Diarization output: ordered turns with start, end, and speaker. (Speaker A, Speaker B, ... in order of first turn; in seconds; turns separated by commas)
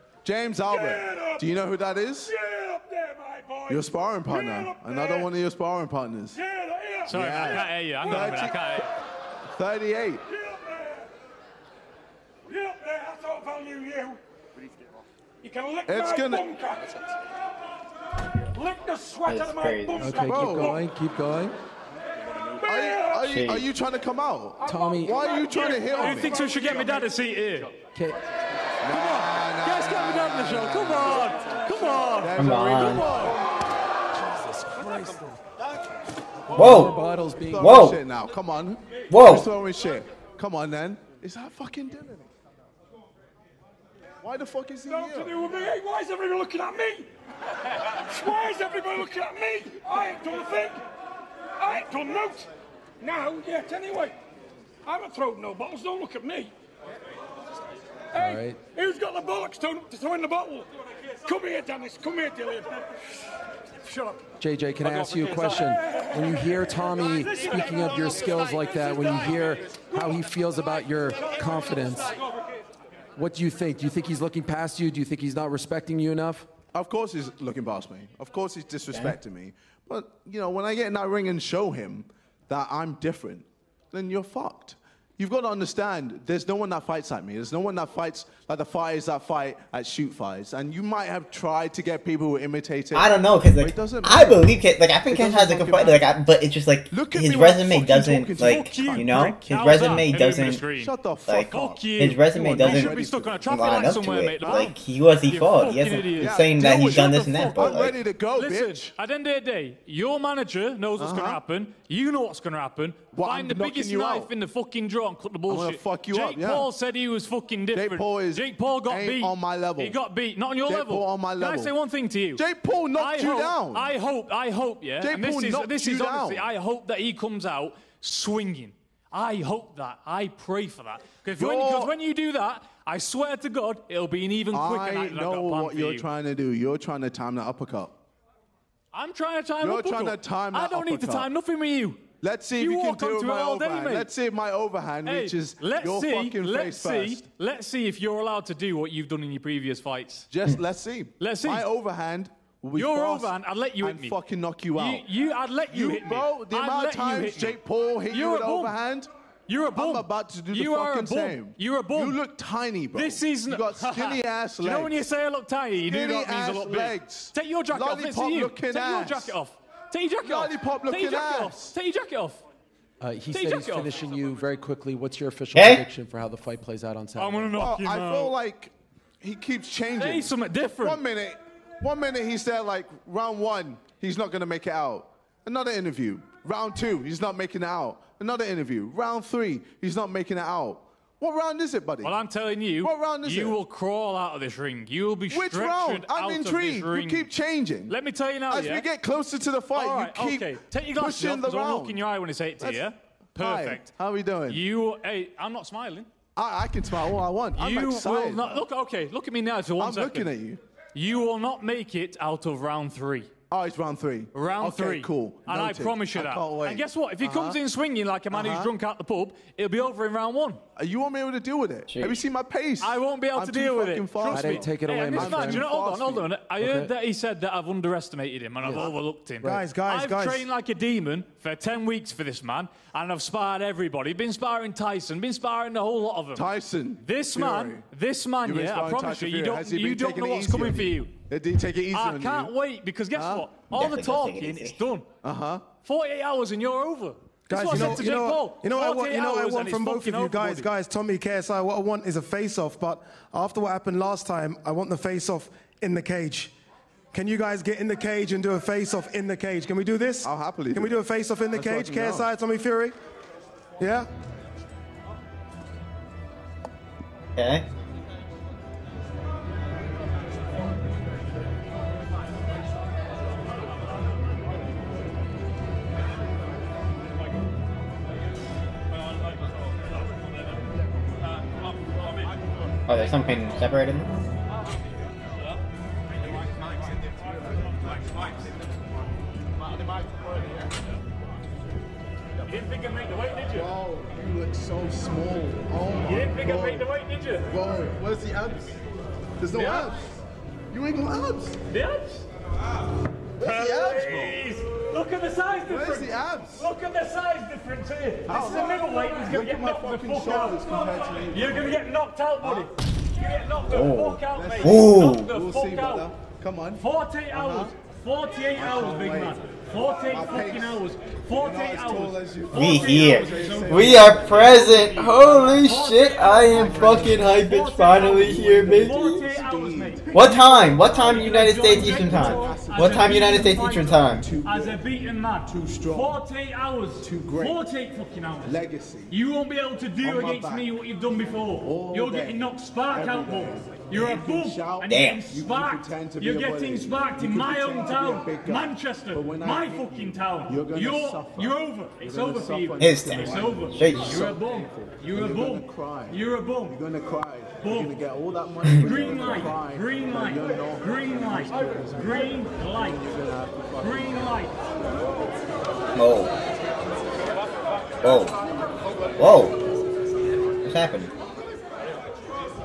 Speaker A: 0.2-2.3, Speaker B: 0.7-1.5, Speaker B: 2.2-5.3, Speaker A: 3.7-6.4, Speaker B: 6.3-8.5, Speaker C: 7.1-8.9, Speaker A: 7.1-8.6, Speaker A: 9.5-10.2, Speaker B: 10.3-11.1, Speaker B: 12.5-14.2, Speaker B: 15.4-17.2, Speaker A: 15.9-16.5, Speaker B: 18.5-20.9, Speaker D: 19.3-20.2, Speaker E: 20.0-21.6, Speaker A: 20.3-20.7, Speaker B: 22.3-23.5, Speaker A: 22.6-26.4, Speaker D: 23.2-23.6, Speaker B: 24.6-27.1, Speaker E: 24.6-25.1, Speaker C: 26.0-27.8, Speaker E: 27.9-28.2, Speaker A: 28.8-33.4, Speaker C: 28.9-32.7, Speaker D: 32.4-33.2, Speaker E: 34.1-35.4, Speaker E: 36.5-37.9, Speaker D: 36.5-36.9, Speaker A: 37.5-42.3, Speaker D: 37.6-38.0, Speaker D: 39.1-39.5, Speaker A: 44.2-45.4, Speaker B: 44.9-47.1, Speaker B: 47.7-50.8, Speaker B: 51.6-54.2, Speaker B: 54.9-56.5, Speaker B: 58.1-63.0, Speaker E: 58.1-58.6, Speaker B: 63.8-64.2, Speaker E: 64.4-72.2, Speaker B: 65.0-70.3, Speaker B: 71.1-72.6, Speaker E: 73.2-76.5, Speaker A: 76.7-94.5, Speaker D: 92.9-100.6, Speaker A: 95.1-96.1, Speaker A: 96.9-99.3, Speaker C: 98.4-107.8, Speaker A: 100.7-101.9, Speaker D: 101.3-108.0, Speaker A: 102.5-103.5, Speaker A: 106.2-108.8, Speaker C: 108.3-122.4, Speaker A: 111.0-111.4, Speaker A: 113.1-114.3, Speaker A: 115.5-116.7, Speaker A: 117.7-120.0, Speaker A: 120.7-121.7, Speaker A: 122.4-123.9, Speaker C: 123.0-136.1, Speaker A: 125.0-126.5, Speaker A: 131.4-131.9, Speaker A: 134.5-138.0, Speaker C: 138.9-144.1, Speaker A: 139.6-141.3, Speaker A: 142.2-147.3, Speaker C: 145.1-150.3, Speaker A: 150.3-155.1, Speaker C: 151.2-151.7, Speaker C: 152.8-154.2, Speaker C: 154.7-158.8, Speaker A: 155.7-159.1, Speaker C: 159.5-162.2, Speaker A: 159.8-165.0, Speaker C: 162.9-172.4, Speaker A: 165.8-169.4, Speaker A: 170.2-171.8, Speaker E: 173.0-177.6, Speaker C: 173.3-174.0, Speaker D: 175.5-175.8, Speaker C: 177.2-178.3, Speaker A: 177.6-192.2, Speaker C: 180.0-181.0, Speaker C: 192.0-197.3, Speaker A: 192.8-193.6, Speaker A: 195.3-197.9, Speaker C: 197.9-198.9, Speaker A: 198.5-202.0, Speaker C: 199.7-204.0, Speaker A: 202.6-204.6, Speaker C: 204.5-206.1, Speaker A: 206.4-208.7, Speaker C: 207.6-210.3, Speaker A: 209.8-210.6, Speaker C: 210.9-213.3, Speaker A: 213.5-217.6, Speaker C: 214.3-220.6, Speaker A: 218.3-218.7, Speaker A: 220.8-226.3, Speaker D: 221.9-222.2, Speaker C: 222.8-241.1, Speaker E: 224.3-225.7, Speaker E: 226.6-226.9, Speaker E: 228.6-228.9, Speaker F: 229.4-230.5, Speaker A: 236.3-237.8, Speaker A: 238.4-242.5, Speaker C: 241.9-245.1, Speaker A: 243.1-243.5, Speaker D: 243.7-244.8, Speaker A: 245.2-245.6, Speaker C: 245.8-250.7, Speaker F: 247.5-256.5, Speaker F: 257.1-262.9, Speaker A: 260.2-261.0, Speaker A: 261.5-262.3, Speaker F: 263.8-264.1, Speaker D: 267.4-267.6, Speaker D: 282.9-284.1, Speaker C: 286.2-287.3, Speaker C: 292.5-293.7, Speaker A: 293.5-296.9, Speaker C: 296.1-297.5, Speaker A: 297.5-300.2, Speaker C: 299.5-299.9, Speaker A: 300.7-301.6, Speaker C: 301.7-302.2, Speaker A: 303.4-304.4, Speaker C: 303.4-316.1, Speaker A: 305.7-306.7, Speaker A: 308.3-311.9, Speaker A: 312.4-312.7, Speaker D: 313.7-315.3, Speaker A: 314.3-317.7, Speaker C: 316.8-356.8, Speaker A: 318.6-319.4, Speaker A: 320.0-325.3, Speaker D: 322.5-329.2, Speaker A: 326.6-327.2, Speaker A: 328.0-330.1, Speaker D: 330.1-334.3, Speaker A: 331.1-334.8, Speaker A: 335.5-336.2, Speaker A: 337.0-337.7, Speaker A: 338.4-339.1, Speaker A: 340.0-340.7, Speaker A: 341.6-364.4, Speaker D: 344.9-345.2, Speaker D: 352.8-354.2, Speaker C: 357.6-357.9, Speaker C: 358.8-363.0, Speaker C: 363.8-364.6, Speaker D: 365.9-366.3, Speaker D: 368.0-368.4, Speaker D: 369.2-369.6, Speaker D: 370.6-371.1